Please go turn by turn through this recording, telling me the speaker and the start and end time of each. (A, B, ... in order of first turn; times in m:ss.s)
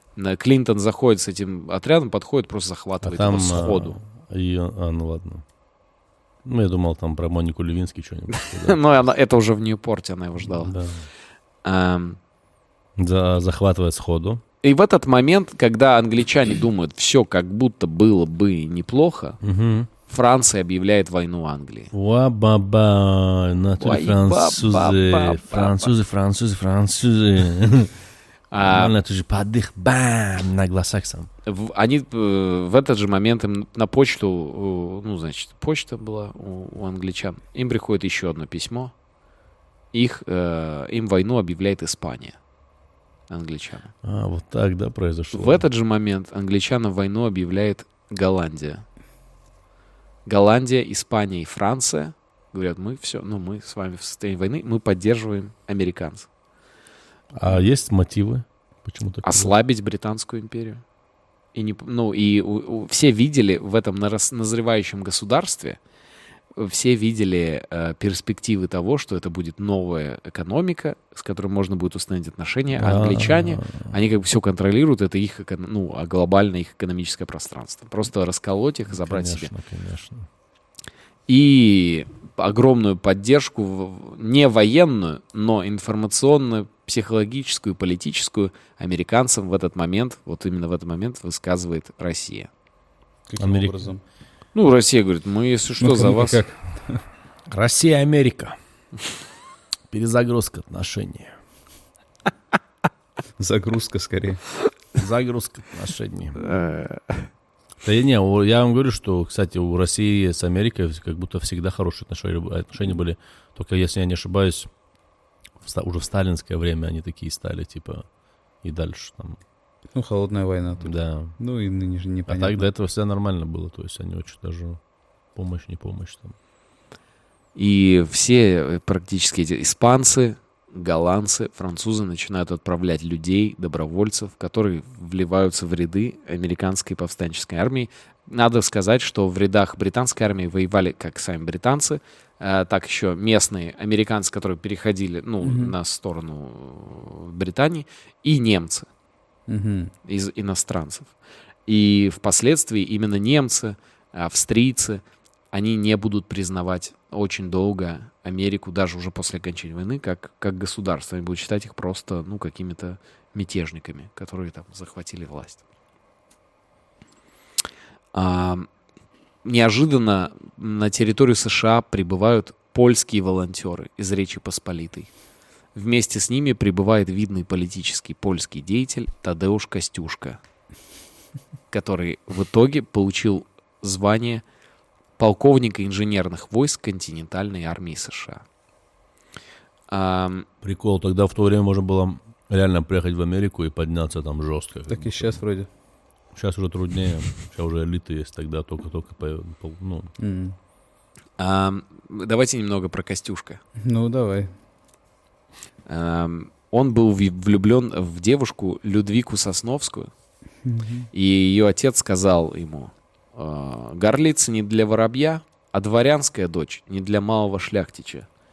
0:00.2-0:04.0 A
0:03.0-0:05.4 B
0:06.4-0:08.8 B
0:08.3-0:10.8 A
0:10.6-0:11.0 B
0:11.6-0:12.2 A
0:13.0-0:14.4 B
0:14.6-0:19.4 A
0:19.4-0:19.9 B
0:20.0-0:21.9 A
0:21.9-0:27.9 B
0:23.8-0:25.9 A
0:28.5-0:28.9 A
0:28.6-0:31.3 B
0:31.4-0:38.9 A
0:39.9-0:42.4 A
0:43.3-0:43.9 A
0:44.0-0:45.6 B
0:45.3-0:48.8 A
0:50.2-0:56.3 A
0:57.3-0:59.5 B
0:59.2-1:00.8 A
1:01.5-1:05.8 A
1:06.6-1:19.5 A
1:12.7-1:13.9 B
1:18.9-1:20.3 B
1:21.3-1:32.5 A
1:33.3-1:34.0 C
1:33.4-1:33.8 B
1:34.5-1:36.4 A
1:35.8-1:37.0 C
1:37.5-1:38.6 B
1:39.9-1:41.3 B
1:43.4-1:44.4 C
1:45.0-1:46.4 B
1:46.4-1:47.2 A
1:47.8-1:54.7 B
1:55.6-1:58.1 B
1:58.6-1:59.4 B
1:59.9-2:02.7 C
2:00.8-2:01.4 B
2:02.3-2:04.8 B
2:05.3-2:06.4 B
2:07.6-2:28.9 A
2:25.4-2:25.7 C
2:29.5-2:29.9 C
2:30.0-2:31.1 A
2:31.7-2:45.6 A
2:48.1-2:48.7 A
2:49.4-2:55.1 A
2:55.7-3:00.4 A
3:01.7-3:04.4 A
3:05.2-3:08.4 A
3:09.9-3:10.4 A
3:10.6-3:15.4 B
3:14.9-3:15.7 C
3:16.3-3:20.1 B
3:20.2-3:20.6 C
3:21.4-3:23.6 A
3:23.8-3:24.5 C
3:25.9-3:30.1 A
3:30.6-3:31.1 C
3:31.1-3:38.3 A